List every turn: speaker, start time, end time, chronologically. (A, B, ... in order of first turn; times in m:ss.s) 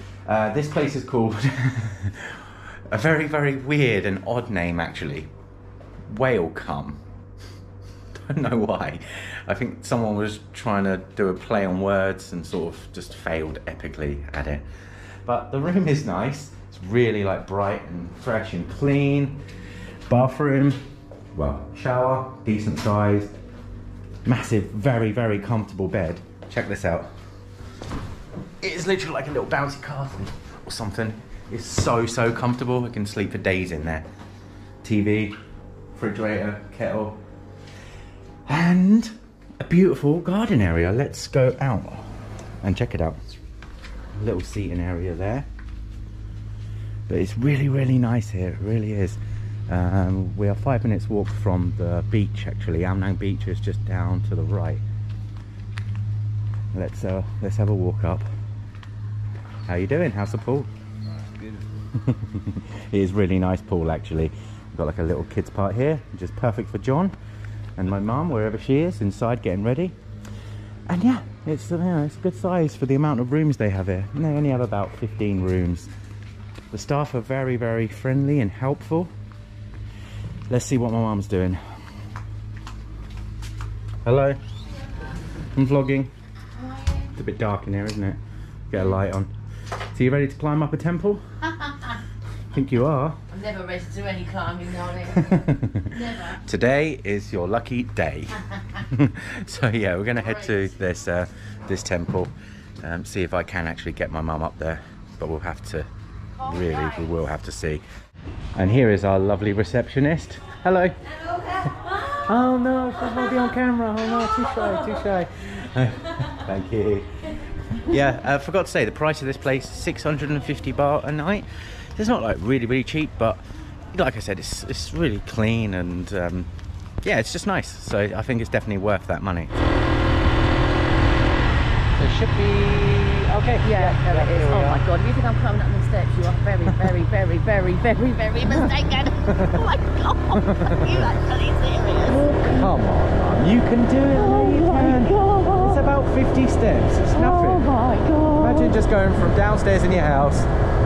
0:00.2-0:05.3 A
0:06.1-0:07.0 A
0:08.1-0:14.6 A
0:15.2-0:19.4 A
0:20.1-0:20.8 A
0:21.3-0:23.3 A
0:24.2-0:27.1 A
0:28.6-0:34.0 A
0:34.8-0:35.3 A
0:35.9-0:37.2 A
0:38.4-0:43.2 A
0:44.2-0:45.5 A
0:47.1-0:54.8 A
0:56.7-0:58.2 A
0:59.7-1:00.7 A
1:01.9-1:07.1 A
1:07.8-1:09.9 A
1:10.9-1:15.9 A
1:16.7-1:19.1 A
1:20.5-1:21.6 A
1:24.0-1:24.4 A
1:25.5-1:26.1 A
1:26.5-1:27.2 B
1:27.2-1:28.2 A
1:28.7-1:29.3 A
1:29.9-1:31.2 A
1:32.5-1:33.2 A
1:33.3-1:36.4 B
1:35.1-1:45.9 A
1:40.2-1:40.7 B
1:46.4-1:47.2 B
1:46.4-1:47.8 A
1:48.5-1:50.9 A
1:51.4-1:57.2 A
1:57.7-2:06.5 A
2:07.0-2:09.6 A
2:12.0-2:14.8 A
2:13.6-2:22.7 B
2:18.5-2:19.6 A
2:20.4-2:21.1 A
2:22.0-2:27.7 A
2:24.1-2:25.8 B
2:27.1-2:28.8 B
2:28.4-2:30.5 A